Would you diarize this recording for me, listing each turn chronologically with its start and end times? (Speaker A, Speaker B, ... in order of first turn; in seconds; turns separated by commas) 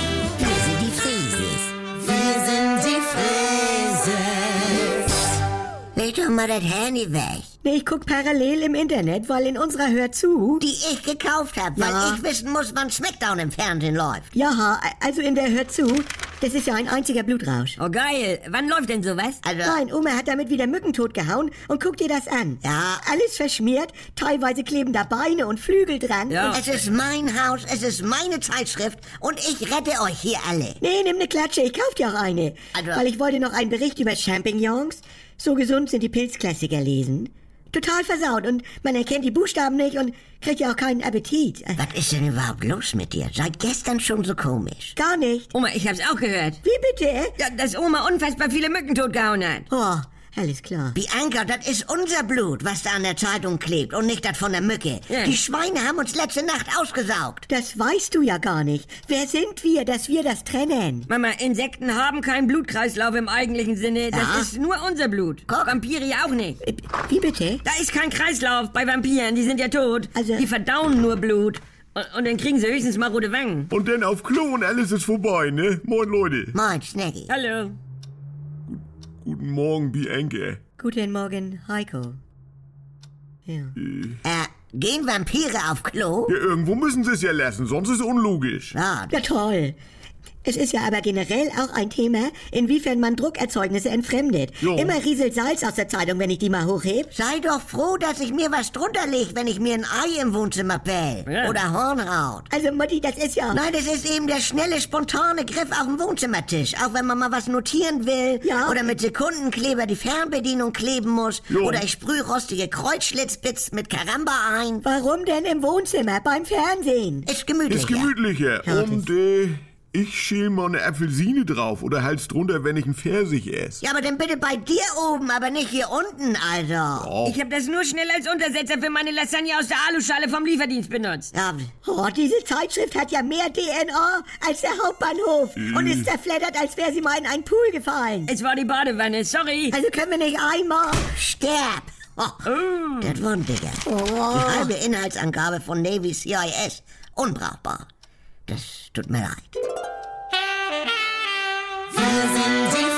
Speaker A: 0.4-4.9, Speaker A: 5.9-7.5, Speaker B: 7.6-10.6, Speaker A: 10.6-14.3, Speaker B: 11.8-12.2, Speaker B: 14.3-17.8, Speaker C: 17.8-19.4, Speaker A: 19.4-19.8, Speaker B: 19.6-26.6, Speaker A: 22.6-23.0, Speaker C: 26.3-26.7, Speaker A: 26.5-30.8, Speaker B: 30.8-41.8, Speaker A: 32.7-33.0, Speaker A: 41.8-45.0, Speaker B: 45.0-45.5, Speaker C: 45.5-46.6, Speaker B: 46.6-47.4, Speaker C: 47.4-49.7, Speaker B: 49.7-51.0, Speaker A: 50.9-57.5, Speaker C: 55.1-55.4, Speaker B: 57.5-61.1, Speaker C: 61.1-66.6, Speaker A: 64.1-64.5, Speaker A: 65.5-65.8, Speaker B: 66.6-67.6, Speaker C: 67.6-73.7, Speaker B: 70.1-70.5, Speaker D: 73.7-76.6, Speaker A: 76.5-77.3, Speaker C: 77.3-77.8, Speaker D: 78.7-80.6, Speaker B: 80.8-82.2, Speaker B: 83.5-83.8, Speaker D: 83.8-84.2, Speaker A: 84.2-86.3, Speaker D: 86.3-88.7, Speaker A: 88.7-89.2, Speaker B: 89.1-89.8, Speaker B: 90.4-97.1, Speaker D: 94.6-95.0, Speaker A: 97.1-102.5, Speaker C: 101.3-101.6, Speaker B: 102.5-103.6, Speaker A: 103.5-114.8, Speaker B: 108.4-108.8, Speaker D: 111.5-111.8, Speaker B: 114.8-117.3, Speaker A: 117.2-118.1, Speaker D: 117.7-123.8, Speaker B: 118.6-119.1, Speaker A: 123.8-127.1, Speaker D: 127.0-127.4, Speaker C: 127.2-131.3, Speaker A: 131.3-131.7, Speaker B: 131.8-138.3, Speaker D: 135.6-136.1, Speaker C: 138.3-139.8, Speaker B: 139.7-141.1, Speaker A: 141.1-147.9, Speaker C: 142.4-143.2, Speaker B: 143.8-144.7, Speaker A: 148.5-149.6